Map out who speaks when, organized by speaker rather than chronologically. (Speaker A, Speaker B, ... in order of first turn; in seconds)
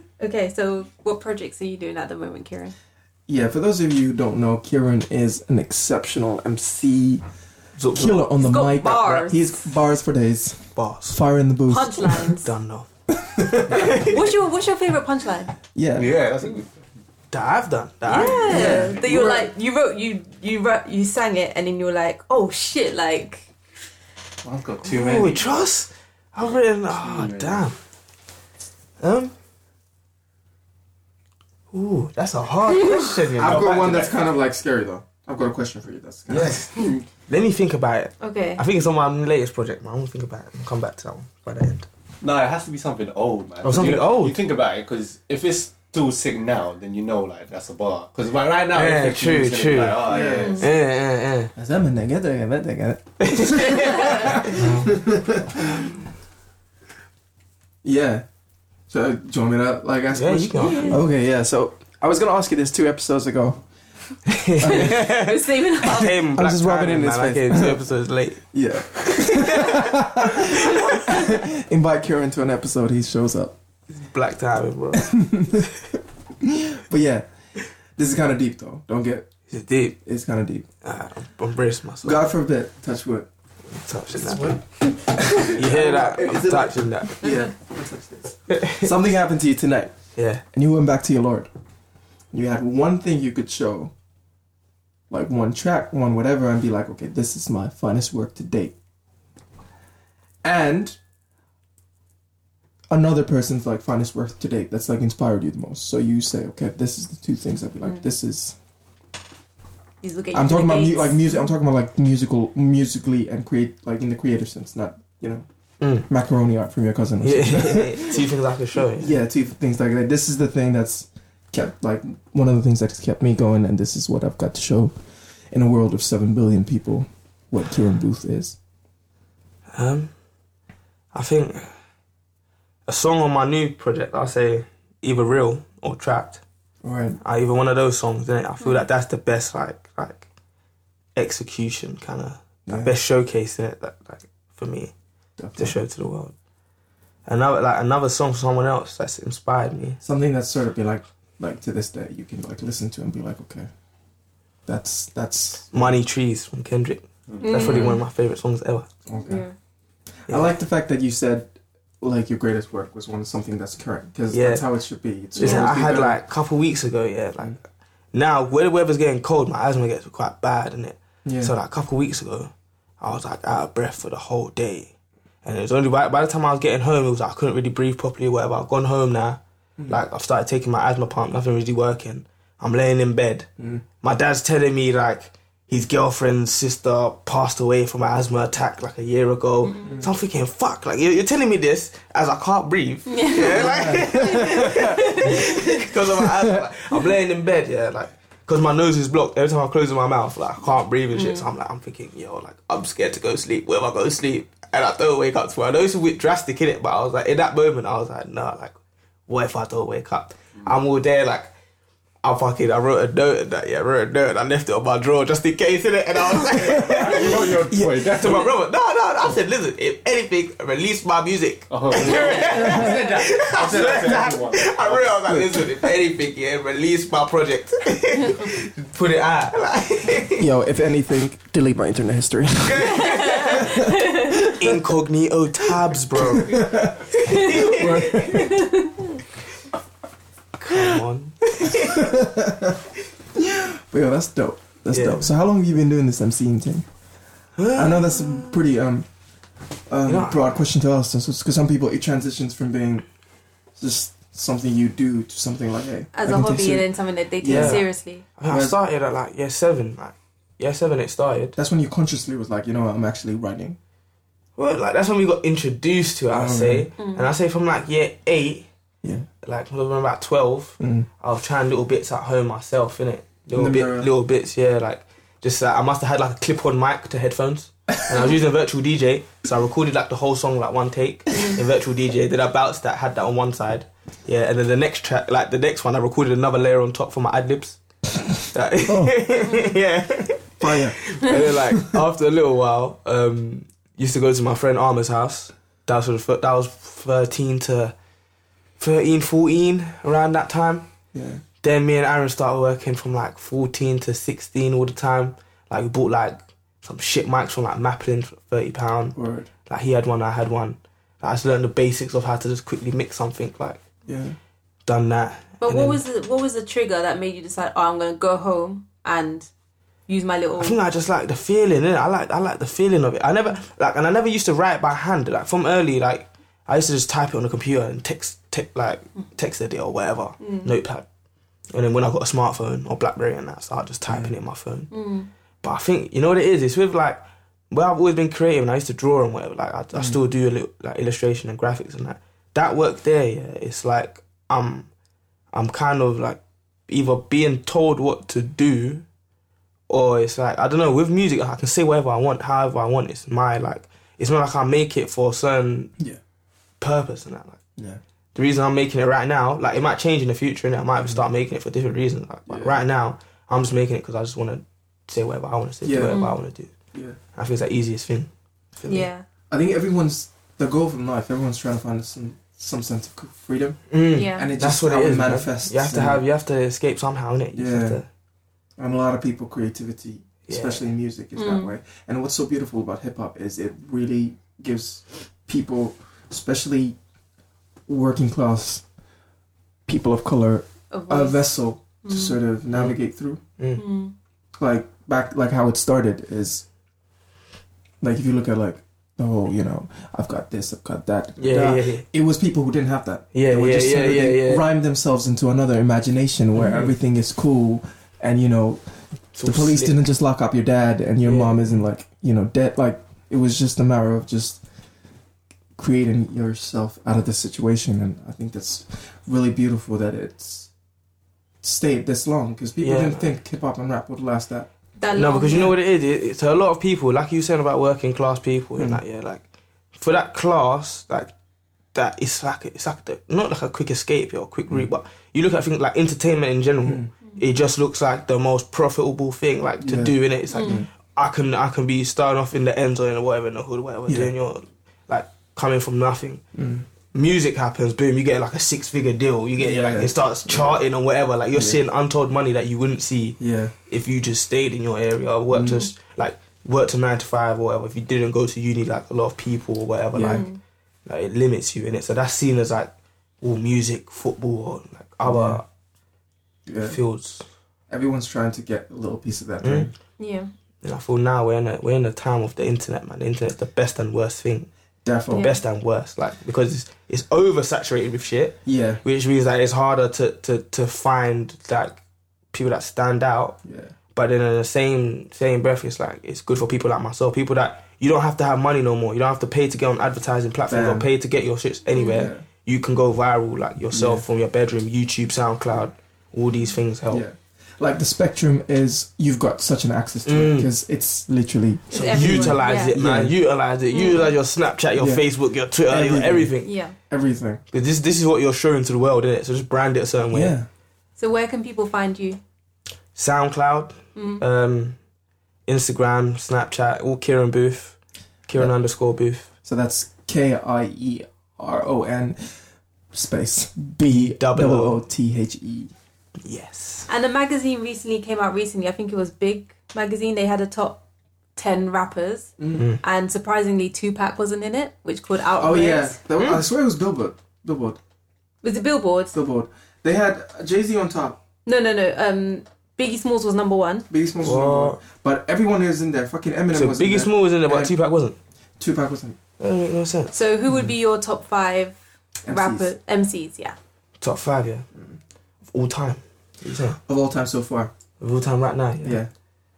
Speaker A: 0.2-2.7, 8.4-9.6, 11.7-12.5, 13.9-15.5, 18.1-23.4, 38.2-38.6, 50.3-50.6, 60.6-61.0, 64.6-66.2, 110.0-111.5, 157.4-158.0, 159.2-159.5, 165.4-165.7, 189.6-190.0, 193.1-195.7, 201.1-201.4, 232.9-234.5, 237.3-239.1, 256.1-258.2, 267.0-267.3, 315.6-319.5, 320.1-320.8, 330.4-330.7, 334.9-335.3, 366.1-366.4, 368.9-369.2, 374.1-374.5, 381.4-381.7, 390.9-391.5, 392.0-392.4, 393.8-394.1, 425.0-425.7, 440.5-440.8, 460.2-460.6, 470.2-470.5, 475.3-475.6, 491.9-492.3, 501.9-502.9, 503.9-504.3, 506.6-506.9, 511.2-512.4, 514.1-514.4, 527.1-531.0, 531.5-536.2, 538.6-539.3, 541.6-544.1, 550.3-553.8
Speaker B: 3.3-7.2, 7.9-12.3, 13.1-14.1, 15.7-16.1, 18.3-19.5, 33.3-36.6, 50.0-50.6, 51.5-55.9, 57.8-58.2, 58.9-63.6, 64.6-65.1, 65.8-67.8, 68.5-73.5, 74.9-75.7, 76.4-77.2, 78.0-79.3, 80.0-80.7, 82.0-83.3, 85.1-89.9, 90.5-91.5, 92.3-93.9, 95.1-98.7, 100.4-101.0, 102.9-108.5, 110.3-115.5, 116.0-118.3, 118.9-125.0, 125.5-128.6, 136.8-137.2, 142.7-142.9, 145.4-145.8, 150.0-153.7, 154.7-155.9, 159.1-159.4, 160.3-166.2, 171.2-171.5, 193.4-196.6, 216.6-218.4, 222.6-223.0, 225.3-225.8, 230.4-234.8, 236.2-238.6, 241.7-242.8, 243.3-246.8, 247.7-249.1, 249.9-253.1, 253.8-257.8, 258.5-258.8, 261.6-263.8, 266.3-266.9, 270.8-271.1, 273.5-274.1, 288.8-289.2, 290.6-291.9, 301.1-301.4, 309.1-309.5, 314.1-314.4, 334.1-334.3, 362.5-362.8, 365.8-366.2, 369.5-376.2, 377.5-378.0, 378.8-387.0, 387.9-388.8, 389.9-393.4, 394.6-396.6, 398.0-408.8, 409.4-414.6, 415.8-420.7, 421.6-424.7, 439.8-440.9, 444.1-444.3, 446.5-446.9, 449.6-450.8, 451.5-451.8, 453.4-453.7, 455.5-455.8, 460.1-460.4, 465.2-465.6, 466.6-467.0, 467.9-469.9, 475.0-475.5, 478.6-479.0, 483.6-483.9, 490.7-491.1, 492.1-492.4, 493.9-494.2, 497.1-503.3, 504.9-505.2, 505.9-507.6, 510.3-510.7, 519.6-522.6, 523.1-525.9, 532.6-532.9, 535.6-538.0, 539.3-541.4, 544.1-547.9, 548.8-549.4, 552.4-552.9, 557.0-557.9, 559.0-559.3
Speaker C: 7.8-8.3, 10.8-11.2, 12.4-12.9, 13.5-14.2, 17.3-18.9, 24.8-27.8, 29.0-29.3, 31.7-34.1, 36.4-36.6, 37.2-41.9, 43.6-44.4, 48.7-51.5, 53.2-55.0, 60.1-61.0, 64.3-71.3, 74.0-75.2, 79.5-80.0, 80.8-82.2, 83.7-84.6, 85.5-87.3, 88.5-88.9, 90.2-90.4, 115.8-116.0, 117.2-119.1, 129.7-130.1, 131.1-131.7, 132.9-136.4, 137.2-140.2, 141.1-144.9, 145.6-146.3, 147.2-150.0, 155.7-158.9, 164.3-164.6, 165.3-167.6, 168.1-174.9, 175.4-183.5, 184.0-208.8, 209.3-211.5, 212.2-217.6, 218.1-230.5, 232.6-233.8, 234.3-238.5, 240.6-242.1, 244.9-245.3, 247.6-248.6, 250.1-250.5, 257.5-261.6, 264.6-268.7, 269.4-287.8, 288.4-297.9, 298.8-300.9, 301.6-309.1, 309.7-313.8, 314.9-316.0, 320.6-331.0, 331.7-334.9, 335.6-337.2, 337.7-344.9, 345.5-349.0, 349.9-355.9, 356.8-357.6, 358.3-366.7, 367.3-369.1, 373.9-378.1, 380.5-380.8, 393.6-393.8, 401.4-402.0, 403.3-404.6, 406.6-406.9, 409.3-409.9, 411.2-411.6, 422.8-423.3, 425.1-429.4, 429.9-431.3, 431.9-446.4, 447.1-453.4, 453.9-460.5, 461.1-462.9, 463.4-465.6, 466.8-467.4, 469.6-469.9, 470.8-474.7, 475.3-482.0, 482.5-483.6, 484.1-497.2, 500.2-500.7, 501.9-506.7, 507.7-510.5, 513.1-515.0, 515.6-519.5, 524.0-525.0, 526.4-527.1, 532.7-533.0, 536.4-536.6, 544.4-545.0, 546.7-548.4, 549.6-550.3, 554.2-554.9, 555.7-557.0, 558.2-559.2
Speaker D: 15.9-16.8, 18.6-18.9, 24.4-25.5, 26.9-27.7, 36.3-37.0, 42.2-50.7, 84.3-84.6, 157.3-157.9, 216.8-218.5, 221.7-225.1